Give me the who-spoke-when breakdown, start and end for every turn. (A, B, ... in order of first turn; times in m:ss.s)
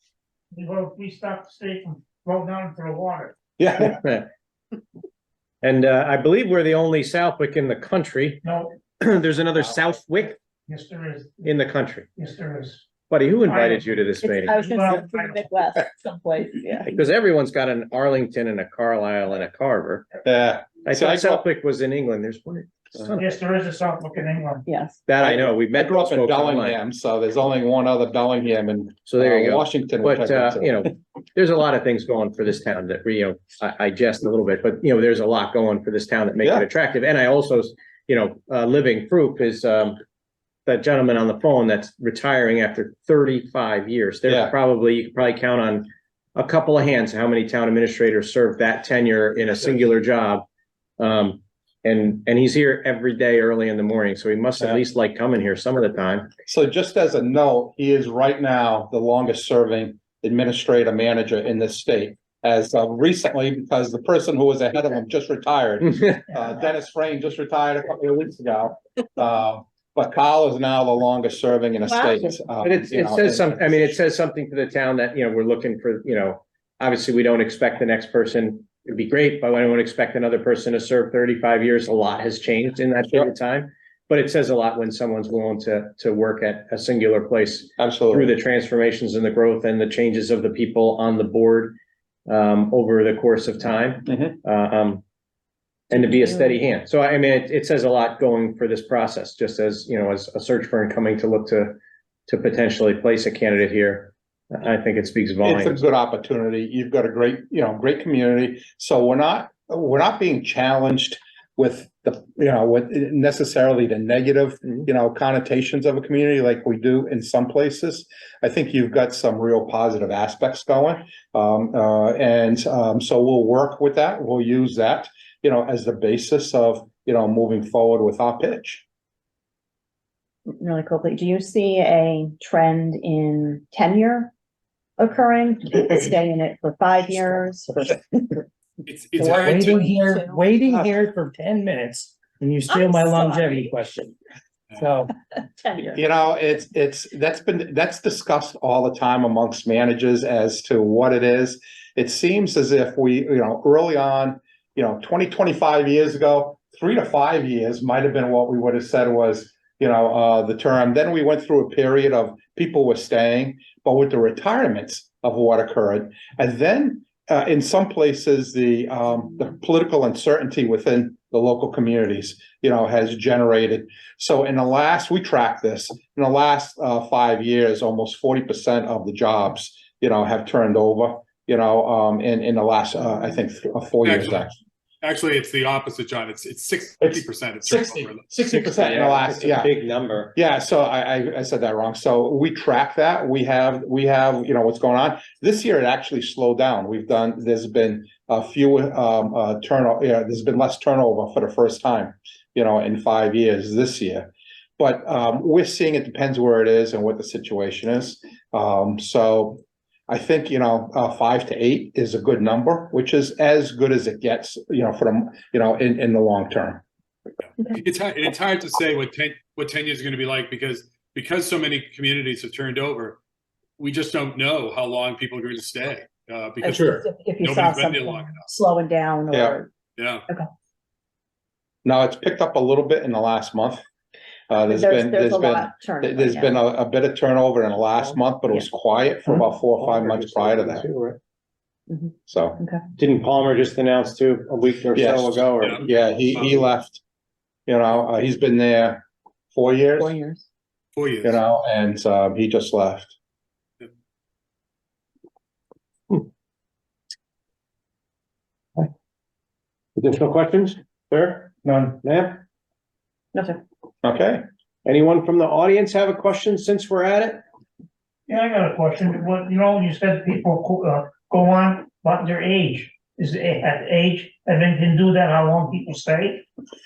0:00.5-0:03.4 A
0:03.6-0:04.0 B
0:03.8-0:04.3 C
0:05.6-0:08.5 C
0:08.4-0:08.7 A
0:09.0-0:10.4 C
0:10.7-0:11.6 A
0:11.4-0:12.1 C
0:12.2-0:12.8 A
0:13.1-0:14.6 C
0:13.4-0:15.5 A
0:14.2-0:16.9 D
0:16.8-0:20.1 C
0:20.2-0:21.4 B
0:20.8-0:23.4 C
0:23.2-0:24.7 A
0:24.7-0:25.0 D
0:25.0-0:26.8 C
0:25.2-0:30.9 B
0:29.1-0:40.0 C
0:36.4-0:36.7 B
0:40.7-0:50.4 C
0:44.3-0:44.5 B
0:51.0-0:56.3 C
0:56.5-1:14.0 B
1:11.8-1:12.3 D
1:12.6-1:31.8 C
1:27.8-1:28.4 B
1:32.3-1:35.0 C
1:34.1-1:34.4 B
1:35.9-1:45.8 C
1:35.9-1:36.6 D
1:45.4-2:08.8 B
2:10.6-2:14.3 D
2:15.0-2:18.4 D
2:18.8-2:20.2 E
2:19.2-2:24.1 F
2:19.6-2:20.4 D
2:22.7-2:23.7 D
2:24.7-2:25.1 F
2:25.6-2:26.0 D
2:25.9-3:04.6 B
3:04.0-3:04.5 E
3:05.0-3:08.6 E
3:07.0-3:09.7 B
3:08.5-3:10.3 C
3:10.3-3:36.8 B
3:37.5-3:43.2 E
3:43.8-3:48.5 E
3:46.6-3:49.7 D
3:49.3-3:49.6 B
3:50.0-3:50.2 E
3:51.8-3:53.8 B
3:54.5-4:00.8 B
3:54.7-3:56.6 D
3:59.3-4:01.2 C
4:01.9-4:02.8 D
4:02.3-4:02.6 B
4:03.0-4:05.9 C
4:04.9-4:07.0 B
4:05.6-4:06.7 E
4:07.7-4:10.1 B
4:10.0-4:10.4 D
4:11.0-4:11.4 E
4:11.2-4:13.2 B
4:20.0-4:22.4 C
4:23.3-4:23.6 D
4:24.0-4:24.4 B
4:24.8-4:27.4 C
4:28.3-4:36.4 A